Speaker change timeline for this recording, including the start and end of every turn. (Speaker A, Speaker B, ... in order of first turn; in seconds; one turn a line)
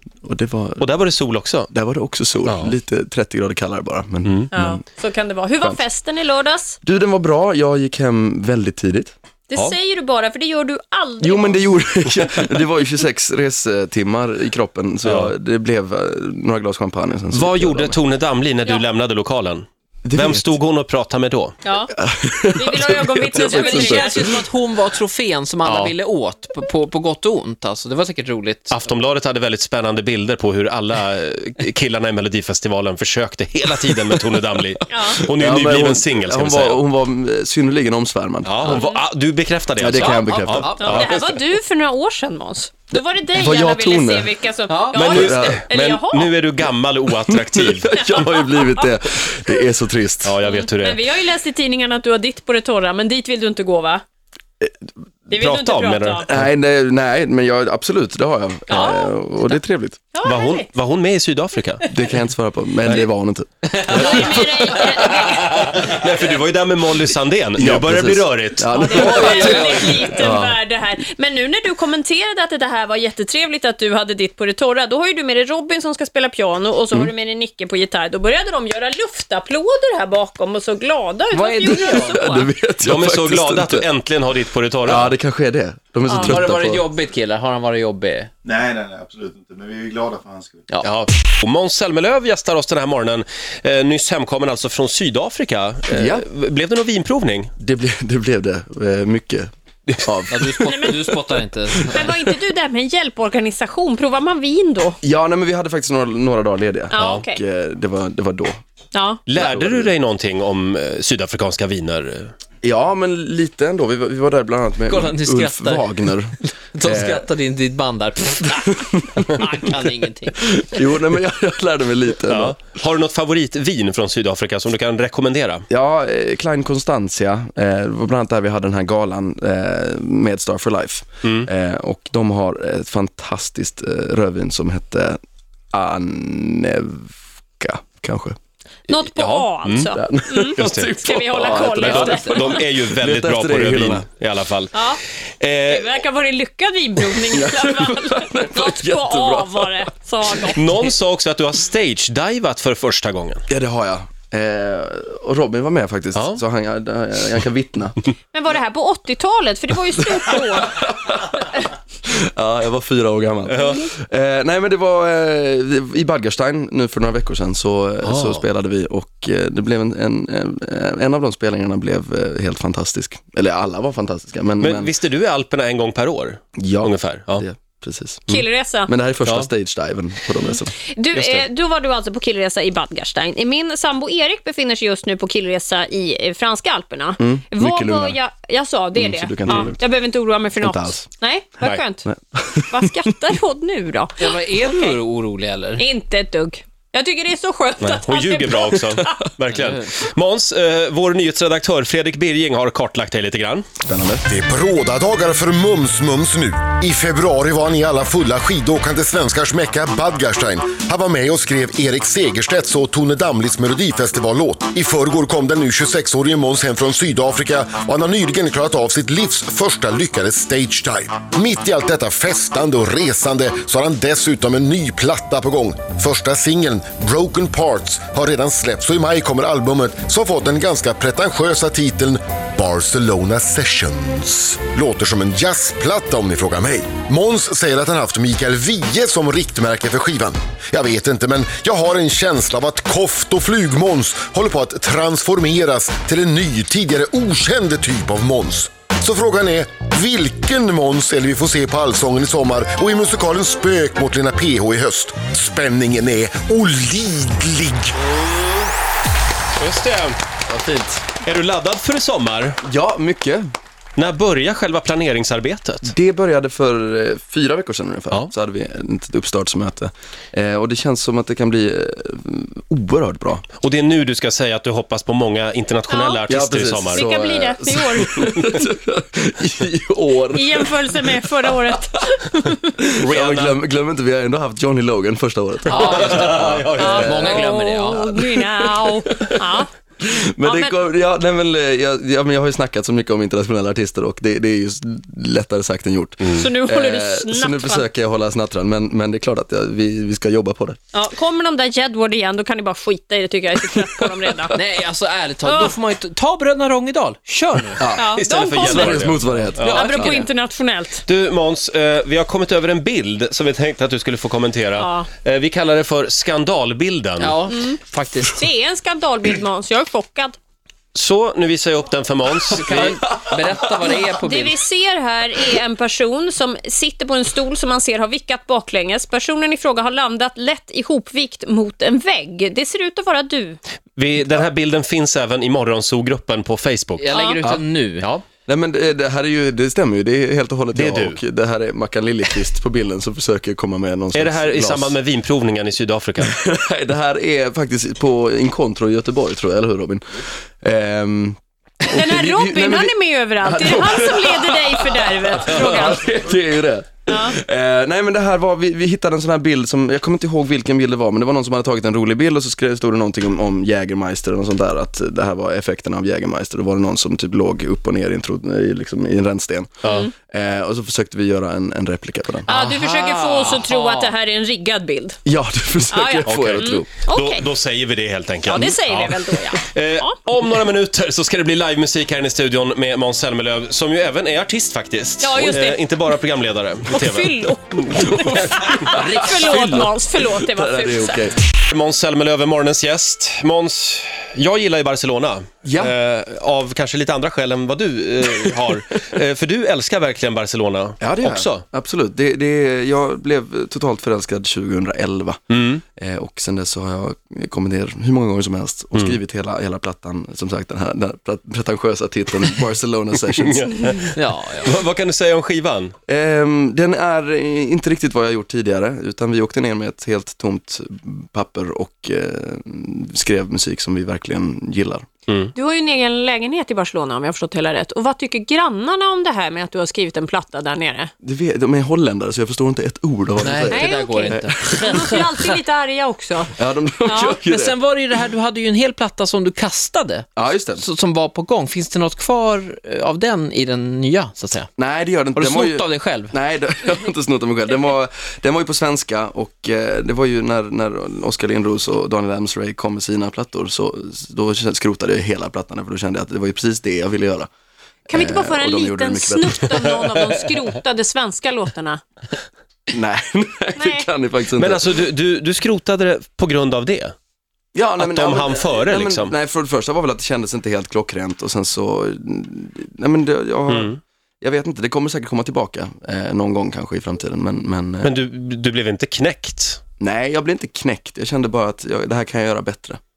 Speaker A: 0.2-1.0
Speaker B: 0.8-1.7
Speaker A: 1.7-4.8
Speaker B: 2.4-2.7
Speaker C: 4.5-6.8
Speaker A: 6.8-9.1
Speaker C: 9.5-11.6
Speaker A: 11.2-18.0
Speaker B: 15.0-15.3
Speaker B: 17.3-21.6
Speaker A: 20.0-20.6
Speaker C: 21.6-21.9
Speaker A: 21.9-24.4
Speaker C: 22.5-24.3
Speaker D: 23.6-28.8
Speaker B: 25.6-25.9
Speaker B: 28.7-36.8
Speaker A: 34.8-38.8
Speaker C: 34.9-35.2
Speaker B: 38.4-41.3
Speaker C: 38.6-39.0
Speaker A: 39.8-40.8
Speaker D: 40.4-41.2
Speaker C: 40.8-46.3
Speaker A: 43.3-44.3
Speaker D: 44.7-45.2
Speaker B: 44.9-48.0
Speaker A: 45.1-45.6
Speaker A: 47.3-50.4
Speaker C: 47.9-48.9
Speaker B: 50.2-51.0
Speaker C: 50.4-54.0
Speaker C: 55.3-56.3
Speaker B: 55.3-56.5
Speaker A: 56.3-60.0
Speaker C: 58.7-59.1
Speaker C: 60.1-60.6
Speaker B: 60.2-61.9
Speaker A: 61.9-64.3
Speaker D: 63.8-64.2
Speaker C: 63.8-65.5
Speaker B: 63.9-69.7
Speaker A: 67.6-70.6
Speaker C: 68.7-82.5
Speaker D: 69.2-70.0
Speaker D: 81.3-82.3
Speaker A: 81.6-83.9
Speaker B: 82.8-85.1
Speaker A: 84.8-86.9
Speaker C: 86.1-86.4
Speaker D: 86.1-88.3
Speaker E: 88.5-90.6
Speaker B: 90.8-97.5
Speaker A: 95.9-96.2
Speaker A: 97.6-102.3
Speaker D: 100.3-102.1
Speaker C: 100.7-101.0
Speaker C: 101.9-105.0
Speaker A: 105.0-108.5
Speaker C: 106.9-107.4
Speaker B: 107.0-107.2
Speaker C: 108.9-109.2
Speaker B: 109.3-112.3
Speaker A: 109.3-109.9
Speaker A: 112.6-117.3
Speaker D: 114.8-120.6
Speaker A: 118.8-119.4
Speaker A: 120.4-122.6
Speaker B: 122.3-125.6
Speaker A: 125.7-135.2
Speaker B: 131.2-131.5
Speaker A: 135.7-138.3
Speaker C: 138.9-142.6
Speaker B: 139.1-139.9
Speaker A: 139.9-144.1
Speaker B: 140.5-144.9
Speaker C: 144.7-145.0
Speaker B: 145.4-146.0
Speaker C: 145.6-150.9
Speaker A: 147.2-149.9
Speaker B: 150.4-153.4
Speaker A: 153.5-158.0
Speaker B: 156.1-156.4
Speaker C: 158.3-160.8
Speaker A: 160.6-161.5
Speaker A: 162.1-174.9
Speaker B: 163.5-163.8
Speaker B: 168.0-168.4
Speaker B: 174.6-177.4
Speaker A: 176.6-178.3
Speaker C: 178.3-178.9
Speaker A: 178.9-180.7
Speaker C: 180.9-192.1
Speaker B: 181.1-181.5
Speaker A: 187.2-188.2
Speaker A: 188.9-189.8
Speaker A: 190.6-191.0
Speaker A: 192.1-193.0
Speaker C: 192.7-194.9
Speaker D: 194.2-195.8
Speaker C: 195.8-199.1
Speaker B: 197.8-203.7
Speaker A: 203.8-204.2
Speaker F: 204.2-257.9
Speaker B: 258.1-258.7
Speaker B: 259.6-260.2
Speaker A: 260.5-261.0
Speaker B: 261.2-262.6
Speaker A: 262.6-263.5
Speaker B: 263.9-265.9
Speaker A: 265.9-273.4
Speaker B: 273.6-277.1
Speaker C: 275.9-276.2
Speaker A: 276.3-281.5
Speaker C: 276.9-278.5
Speaker C: 280.3-282.7
Speaker A: 282.8-287.2
Speaker B: 282.8-283.6
Speaker D: 285.6-288.2
Speaker B: 285.7-287.4
Speaker C: 286.8-289.7
Speaker A: 290.0-300.8
Speaker C: 290.4-290.8
Speaker C: 296.3-297.9
Speaker C: 300.9-304.6
Speaker D: 304.5-307.9
Speaker C: 305.4-305.8
Speaker A: 307.8-308.0
Speaker B: 307.9-309.9
Speaker C: 307.9-309.1
Speaker A: 308.6-310.1
Speaker D: 309.6-310.3
Speaker C: 309.7-311.0
Speaker B: 311.1-317.4
Speaker C: 314.8-315.1
Speaker D: 317.2-318.4
Speaker C: 317.5-317.8
Speaker C: 318.4-320.4
Speaker B: 320.9-323.0
Speaker D: 322.5-324.6
Speaker A: 323.3-323.7
Speaker C: 323.9-333.6
Speaker B: 333.9-337.1
Speaker D: 337.0-338.1
Speaker C: 337.1-337.4
Speaker A: 338.4-344.9
Speaker B: 340.7-341.2
Speaker B: 344.1-346.3
Speaker A: 346.2-372.5
Speaker C: 351.9-356.2
Speaker C: 357.1-357.4
Speaker C: 369.8-370.1
Speaker D: 372.5-374.1
Speaker C: 372.5-375.2
Speaker A: 375.2-376.9
Speaker C: 375.9-377.4
Speaker B: 376.2-388.9
Speaker C: 378.5-380.1
Speaker C: 385.2-385.8
Speaker C: 386.9-391.3
Speaker A: 388.3-391.4
Speaker B: 391.6-401.6
Speaker A: 395.6-395.9
Speaker A: 401.0-405.4
Speaker B: 405.5-405.8
Speaker A: 405.9-413.9
Speaker B: 413.4-415.9
Speaker D: 414.1-414.8
Speaker A: 416.1-425.1
Speaker B: 425.3-425.5
Speaker C: 425.5-431.1
Speaker A: 431.2-434.8
Speaker D: 433.4-435.6
Speaker C: 433.7-436.5
Speaker A: 436.6-437.8
Speaker C: 437.1-437.4
Speaker D: 437.2-444.7
Speaker A: 440.4-440.8
Speaker A: 444.8-457.5
Speaker D: 445.4-446.3
Speaker C: 458.1-462.0
Speaker A: 458.1-459.7
Speaker A: 462.9-464.9
Speaker C: 463.8-464.1
Speaker B: 464.6-467.1
Speaker A: 467.7-478.1
Speaker B: 468.0-469.3
Speaker B: 473.7-474.0
Speaker B: 478.0-479.8
Speaker A: 480.0-483.0